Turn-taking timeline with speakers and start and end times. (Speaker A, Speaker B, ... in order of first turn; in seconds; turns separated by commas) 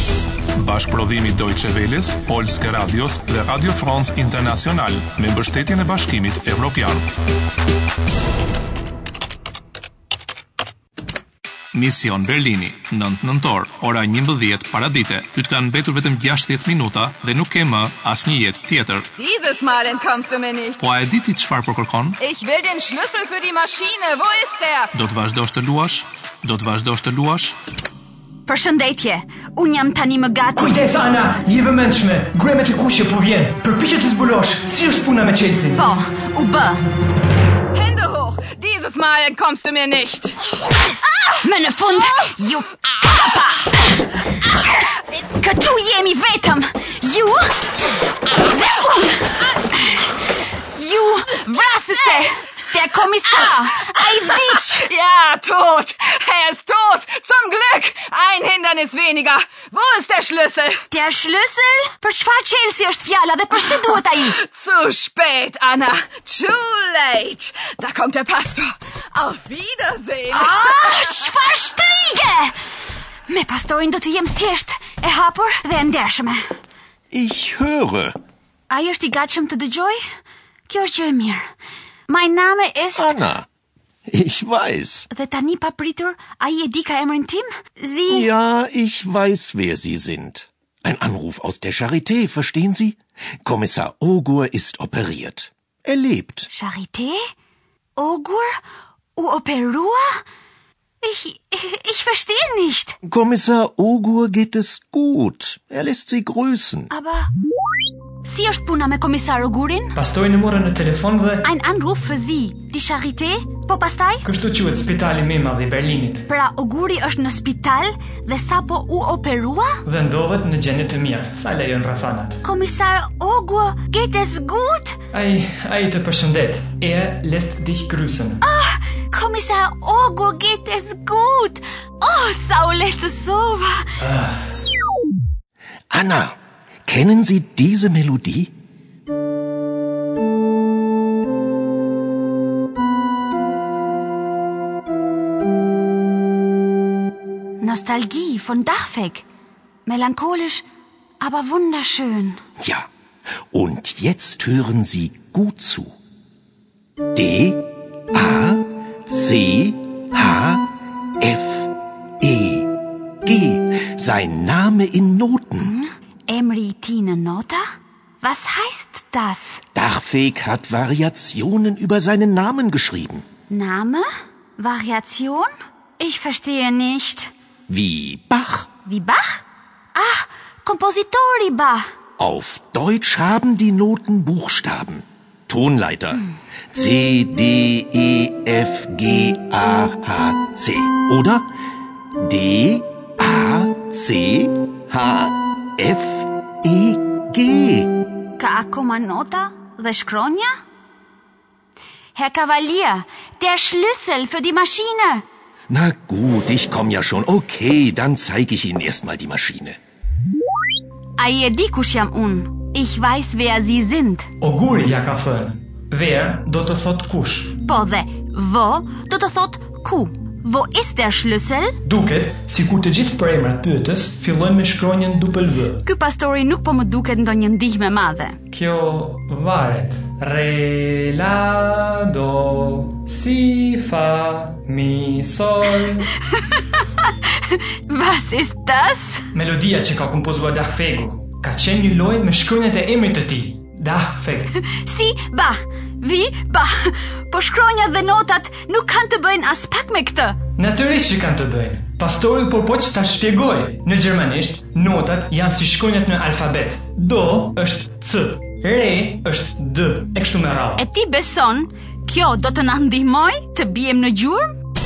Speaker A: 0.5-7.0, Speaker A: 11.7-19.1, Speaker B: 19.2-20.8, Speaker A: 20.8-22.2, Speaker B: 22.2-24.9, Speaker A: 24.9-27.6, Speaker C: 28.4-30.8, Speaker D: 30.6-35.8, Speaker C: 35.7-36.9, Speaker B: 37.7-40.4, Speaker C: 41.3-43.4, Speaker C: 45.1-47.7, Speaker C: 48.8-50.1, Speaker C: 50.7-54.9, Speaker B: 54.5-60.8, Speaker C: 60.9-64.4, Speaker B: 64.1-71.1, Speaker C: 70.3-72.5, Speaker C: 73.3-76.4, Speaker E: 77.1-78.2, Speaker C: 78.7-80.0, Speaker C: 80.7-81.4, Speaker C: 82.1-83.1, Speaker E: 83.0-83.5, Speaker E: 84.1-85.1, Speaker C: 85.1-88.3, Speaker E: 88.1-96.5, Speaker C: 96.5-97.2, Speaker C: 98.0-98.6, Speaker C: 99.1-100.2, Speaker C: 101.0-103.0, Speaker E: 103.0-106.9, Speaker C: 106.9-107.3, Speaker C: 108.2-110.0, Speaker D: 110.0-111.5, Speaker C: 111.4-114.3, Speaker D: 114.2-116.2, Speaker C: 116.3-119.8, Speaker D: 119.8-122.4, Speaker C: 122.4-125.0, Speaker D: 125.1-128.4, Speaker C: 128.4-133.9, Speaker D: 134.0-134.4, Speaker E: 135.9-138.5, Speaker C: 147.6-149.2, Speaker C: 149.8-150.6, Speaker C: 151.2-152.4, Speaker E: 152.6-152.9, Speaker E: 153.5-155.9, Speaker E: 157.1-165.7, Speaker C: 165.6-167.6, Speaker C: 168.2-169.6, Speaker E: 169.7-173.2, Speaker C: 173.5-177.3, Speaker E: 177.7-178.7, Speaker C: 178.8-181.8, Speaker E: 182.2-191.5, Speaker E: 192.2-197.9, Speaker C: 198.4-200.5, Speaker C: 202.1-205.2, Speaker E: 205.7-209.8, Speaker C: 211.2-214.3, Speaker D: 214.4-217.6, Speaker C: 217.6-221.8, Speaker D: 221.8-225.8, Speaker C: 225.8-228.4, Speaker D: 228.5-236.1, Speaker C: 237.5-239.3, Speaker D: 239.3-244.5, Speaker C: 244.6-250.4, Speaker D: 250.6-260.8, Speaker C: 260.8-264.5